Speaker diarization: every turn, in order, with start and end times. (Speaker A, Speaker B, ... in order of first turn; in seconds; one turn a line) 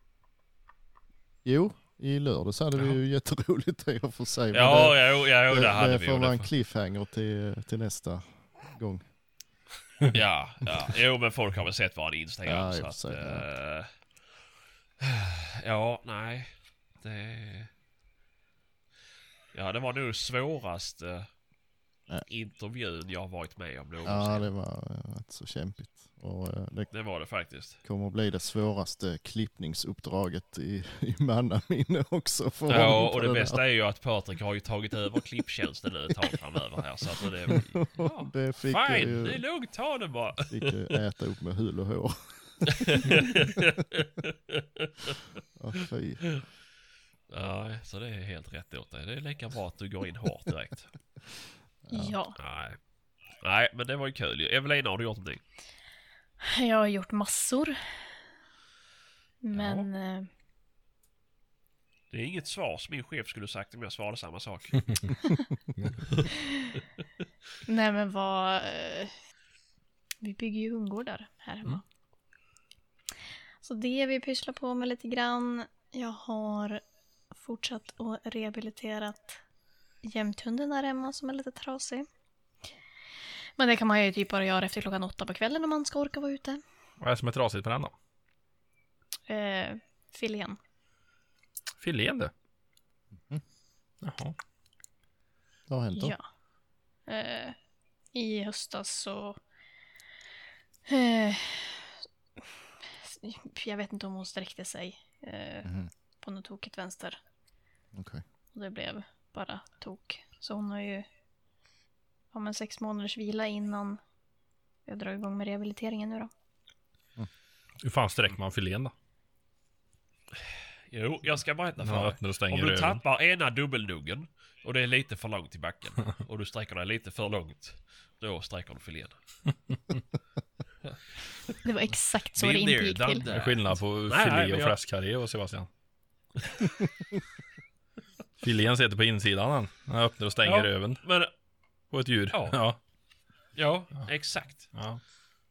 Speaker A: 1.4-9.1
Speaker B: 4.5-6.5
Speaker B: 10.1-13.9
Speaker A: 12.4-13.5
Speaker B: 15.0-17.7
Speaker B: 19.5-21.3
Speaker B: 22.3-24.5
Speaker A: 24.0-26.9
Speaker B: 26.9-27.8
Speaker A: 27.8-33.6
Speaker B: 32.7-41.0
Speaker A: 37.5-39.4
Speaker A: 40.5-43.2
Speaker B: 42.7-45.2
Speaker A: 45.6-46.2
Speaker B: 47.3-50.9
Speaker A: 51.9-52.2
Speaker C: 51.9-52.4
Speaker B: 52.4-52.8
Speaker B: 53.4-55.4
Speaker C: 56.4-57.8
Speaker C: 59.4-60.3
Speaker B: 59.5-59.9
Speaker B: 62.1-64.9
Speaker C: 66.3-66.7
Speaker C: 67.7-69.1
Speaker C: 70.2-71.8
Speaker C: 73.6-76.8
Speaker C: 77.3-79.4
Speaker C: 80.0-82.1
Speaker C: 83.6-86.6
Speaker D: 87.0-87.9
Speaker C: 89.3-90.6
Speaker D: 91.8-92.3
Speaker D: 94.0-94.4
Speaker A: 95.7-96.2
Speaker C: 95.9-96.2
Speaker C: 97.1-97.6
Speaker C: 98.1-99.4
Speaker C: 100.9-101.9
Speaker C: 103.0-107.2
Speaker A: 105.7-105.9
Speaker A: 107.9-108.2
Speaker C: 108.5-111.1
Speaker C: 112.3-114.0
Speaker C: 114.9-116.3
Speaker D: 117.8-118.9
Speaker B: 120.9-129.1
Speaker D: 121.8-123.0
Speaker C: 131.6-133.2
Speaker B: 132.4-134.8
Speaker D: 133.3-135.7
Speaker D: 138.4-141.0
Speaker B: 140.4-141.3
Speaker D: 141.9-142.8
Speaker B: 142.3-142.6
Speaker B: 143.6-144.7
Speaker D: 144.7-145.0